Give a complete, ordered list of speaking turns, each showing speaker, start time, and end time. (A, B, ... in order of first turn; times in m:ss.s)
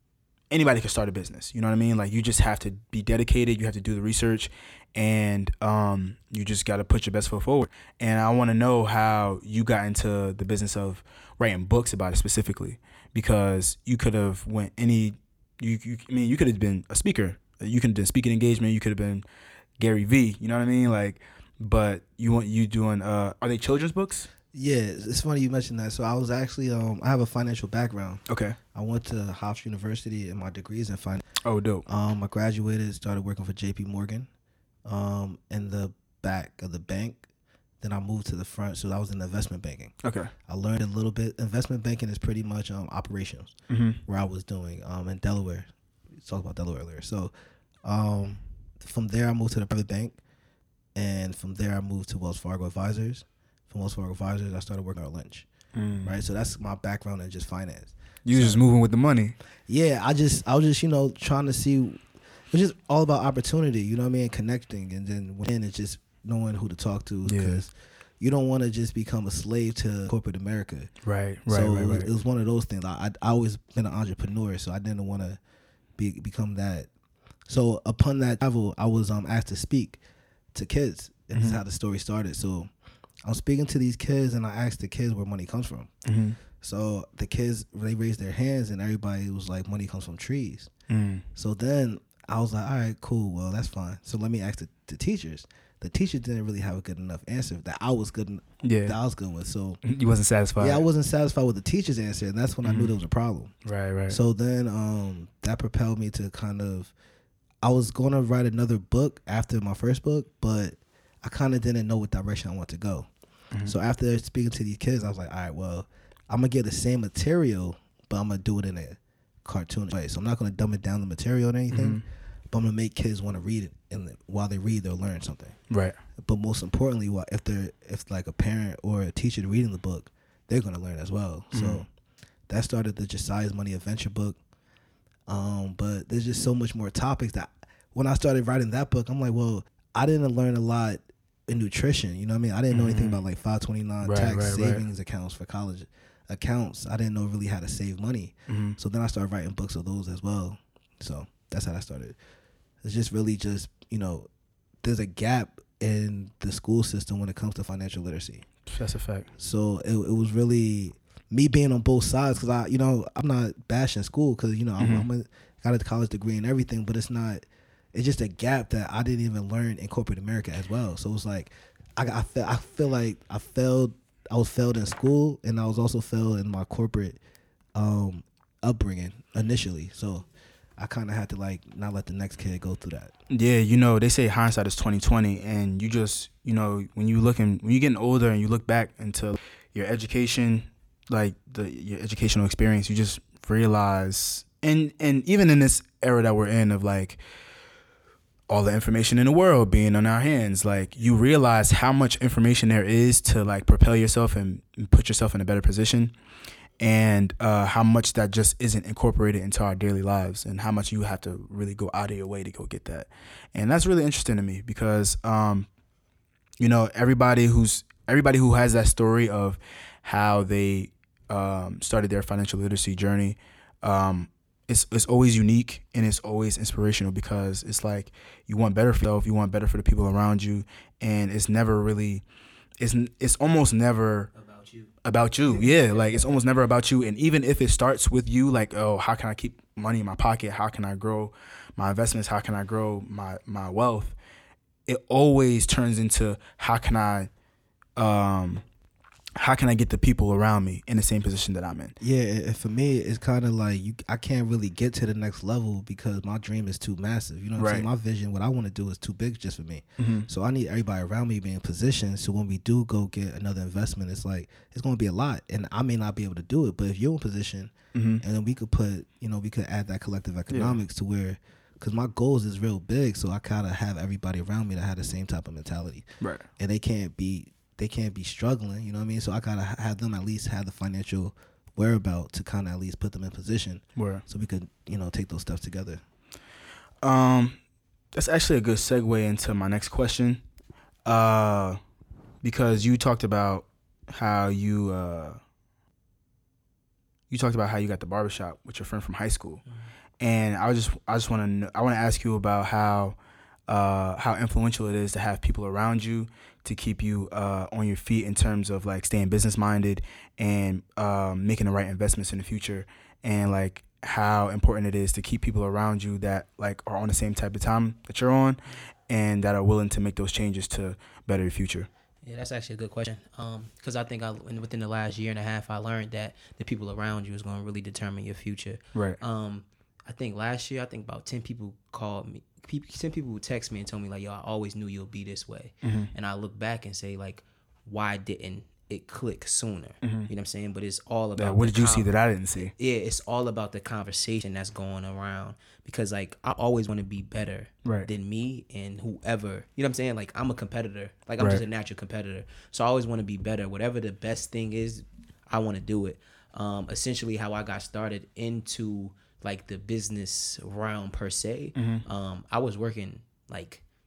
0:00.5-0:19.2 A
0:19.8-0:24.3 A
0:24.5-0:31.2 B
0:28.3-0:28.6 A
0:31.4-0:31.9 A
0:31.9-0:34.3 B
0:34.8-0:37.3 B
0:37.8-0:43.6 B
0:40.0-0:40.3 A
0:43.7-0:44.0 A
0:44.1-0:47.3 B
0:47.8-0:50.2 B
0:51.0-0:55.5 B
0:55.8-0:56.1 A
0:56.0-0:58.6 B
0:58.2-0:59.4 A
0:59.7-1:10.9 B
1:07.3-1:07.6 A
1:11.0-1:12.1 A
1:11.5-1:15.4 B
1:16.0-1:16.9 B
1:17.5-1:20.0 B
1:20.5-1:22.7 B
1:21.3-1:21.6 A
1:23.2-1:25.9 B
1:26.0-1:26.4 A
1:26.6-1:30.7 B
1:30.9-1:31.2 A
1:31.4-1:39.8 B
1:38.6-1:39.0 A
1:39.8-1:40.8 A
1:40.6-1:43.5 B
1:42.6-1:43.0 A
1:43.6-1:44.2 A
1:44.1-1:46.9 B
1:47.6-1:53.1 B
1:53.6-2:05.6 B
2:01.7-2:02.0 A
2:05.7-2:06.0 A
2:06.2-2:11.9 B
2:11.5-2:11.8 A
2:12.5-2:14.4 B
2:15.3-2:32.2 B
2:22.7-2:23.2 A
2:24.0-2:24.8 A
2:28.5-2:28.8 A
2:32.8-2:34.3 B
2:34.8-2:38.5 B
2:38.7-2:39.3 A
2:39.4-2:57.2 B
2:44.8-2:45.1 A
2:57.8-3:00.3 B
3:00.8-3:03.1 B
3:03.3-3:17.2 A
3:18.5-3:26.1 A
3:26.8-3:35.7 A
3:36.6-3:52.2 A
3:52.8-3:54.3 A
3:54.3-3:54.9 C
3:55.0-4:04.2 A
3:55.4-3:56.4 C
4:04.9-4:07.3 A
4:08.0-4:08.6 A
4:09.4-4:12.0 A
4:12.0-4:36.1 B
4:17.6-4:17.9 A
4:20.0-4:20.3 A
4:27.9-4:28.2 A
4:30.5-4:30.8 A
4:36.2-4:36.5 A
4:36.6-4:46.0 B
4:44.0-4:44.2 A
4:47.0-4:47.6 A
4:48.1-4:50.4 A
4:51.0-4:51.8 A
4:52.4-4:55.4 A
4:57.3-4:59.6 A
5:00.2-5:03.2 A
5:03.7-5:21.9 A
5:22.2-6:03.8 C
5:35.8-5:36.1 A
5:40.0-5:40.3 A
5:41.4-5:42.7 A
6:01.8-6:02.0 A